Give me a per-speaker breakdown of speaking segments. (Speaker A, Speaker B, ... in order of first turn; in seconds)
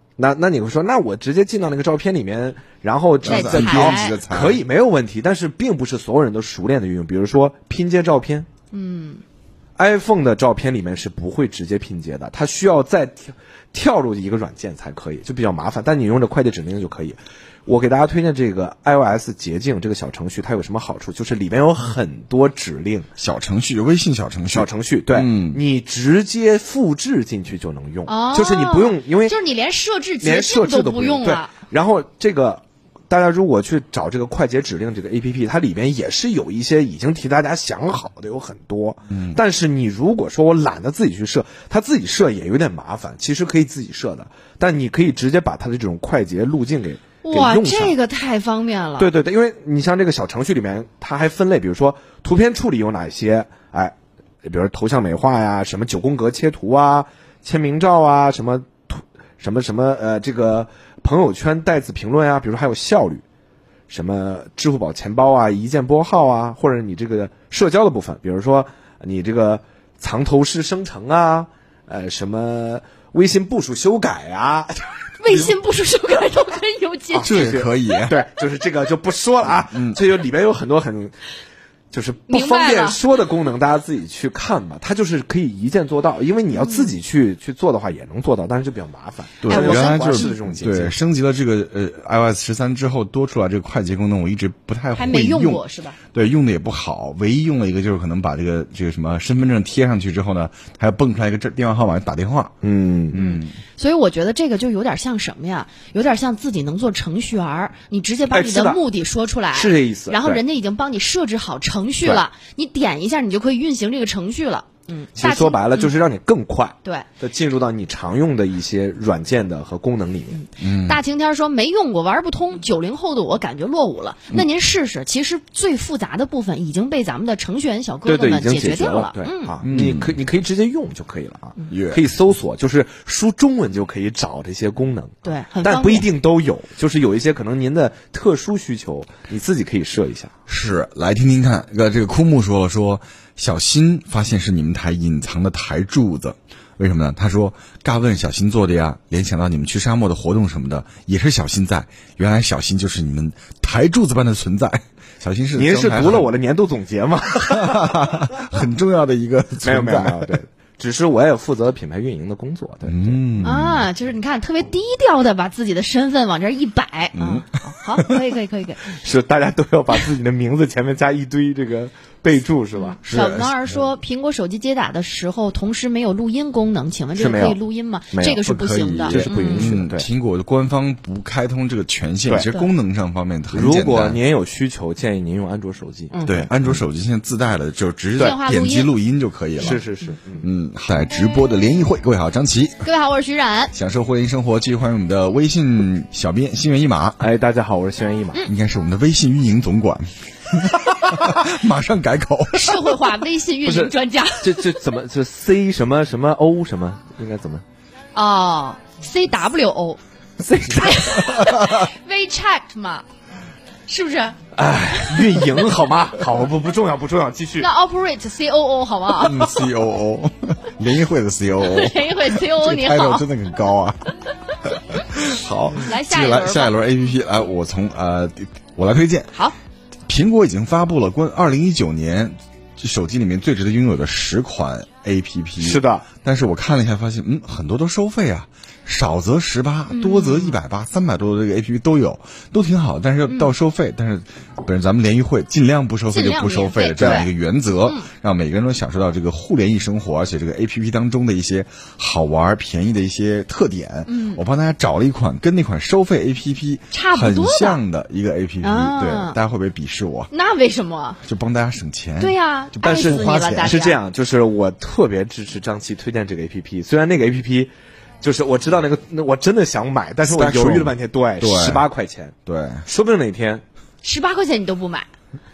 Speaker A: 0.2-8.5, 9.8-23.1, 24.5-29.4, 30.2-48.0, 49.0-63.2, 63.9-75.5, 77.1-81.2, 81.9-91.0, 102.6-103.2, 108.3-108.8, 109.5-110.4, 115.2-120.4, 128.1-140.3, 155.6-158.1, 159.6-163.5, 168.9-173.0, 177.2-177.6, 178.1-178.4, 179.1-180.1, 183.5-186.7, 189.6-190.5, 197.2-198.4, 203.7-207.6, 210.4-211.4, 214.6-217.7, 235.6-236.1, 262.8-273.6
Speaker B: 3.2-4.6, 23.2-25.6, 39.1-39.4, 77.2-78.2, 79.7-80.0, 89.4-95.6, 96.1-102.5, 103.1-103.6, 120.6-121.0, 129.7-130.2, 131.7-132.0, 140.5-156.3, 157.4-160.3, 162.8-163.8, 167.2-167.5, 173.0-173.7, 178.4-184.2, 186.3-189.8, 190.4-192.9, 193.7-197.3, 198.5-203.0, 219.2-224.1, 224.6-229.4, 230.1-260.3, 261.2-263.8, 270.2-271.9, 272.5-272.9
Speaker C: 3.2-4.2, 8.7-9.2, 28.1-31.5, 47.2-49.1, 75.2-78.1, 82.3-83.0, 86.6-86.9, 89.5-90.3, 95.0-96.0, 103.1-115.9, 120.3-129.6, 135.2-136.1, 163.4-168.9, 172.8-179.7, 188.2-188.9, 192.8-193.7, 202.5-204.7, 208.2-210.0, 210.6-213.1, 213.9-214.4, 214.9-215.5, 217.6-219.5, 221.6-223.3, 225.8-226.8, 239.9-240.6, 243.3-243.5, 246.1-247.3, 254.1-254.4, 256.9-257.8, 258.6-259.4, 260.3-261.2, 262.2-264.0, 274.0-275.1